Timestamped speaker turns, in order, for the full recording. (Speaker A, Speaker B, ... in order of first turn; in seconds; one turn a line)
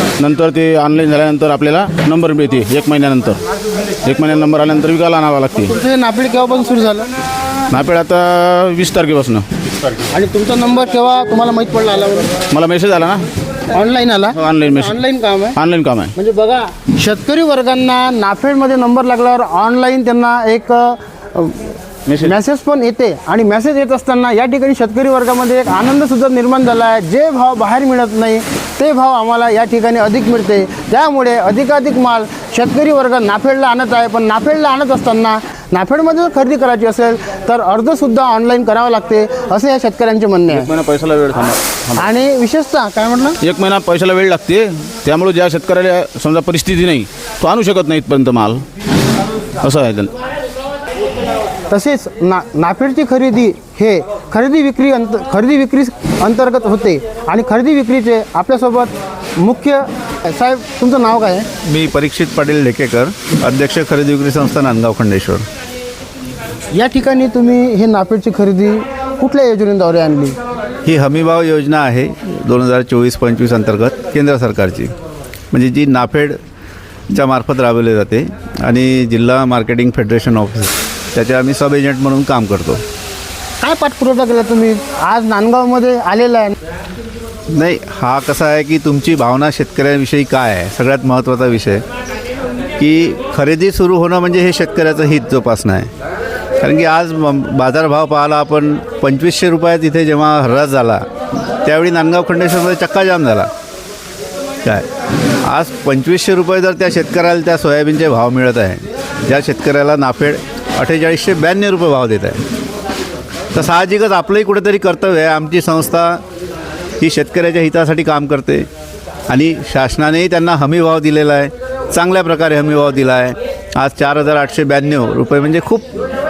Speaker A: 0.2-3.4
Speaker A: 4.0-5.7
Speaker B: 5.6-7.1
Speaker A: 7.7-9.4
Speaker B: 10.1-12.3
Speaker A: 12.5-13.2
Speaker B: 13.7-15.6
Speaker A: 14.3-14.9
Speaker A: 15.6-16.1
Speaker B: 16.1-40.7
Speaker A: 22.1-22.3
Speaker A: 40.5-42.0
Speaker B: 41.9-43.4
Speaker A: 43.4-48.6
Speaker A: 49.6-50.1
Speaker B: 51.7-61.5
Speaker C: 61.6-65.4
Speaker B: 66.7-70.4
Speaker C: 70.8-74.9
Speaker C: 75.5-76.4
Speaker C: 77.1-82.8
Speaker B: 83.6-86.5
Speaker C: 87.5-91.8
Speaker C: 92.8-95.9
Speaker C: 96.6-101.0
Speaker C: 101.6-103.5
Speaker C: 105.4-112.4
Speaker C: 113.5-116.2
Speaker C: 117.0-118.7
Speaker C: 119.3-125.9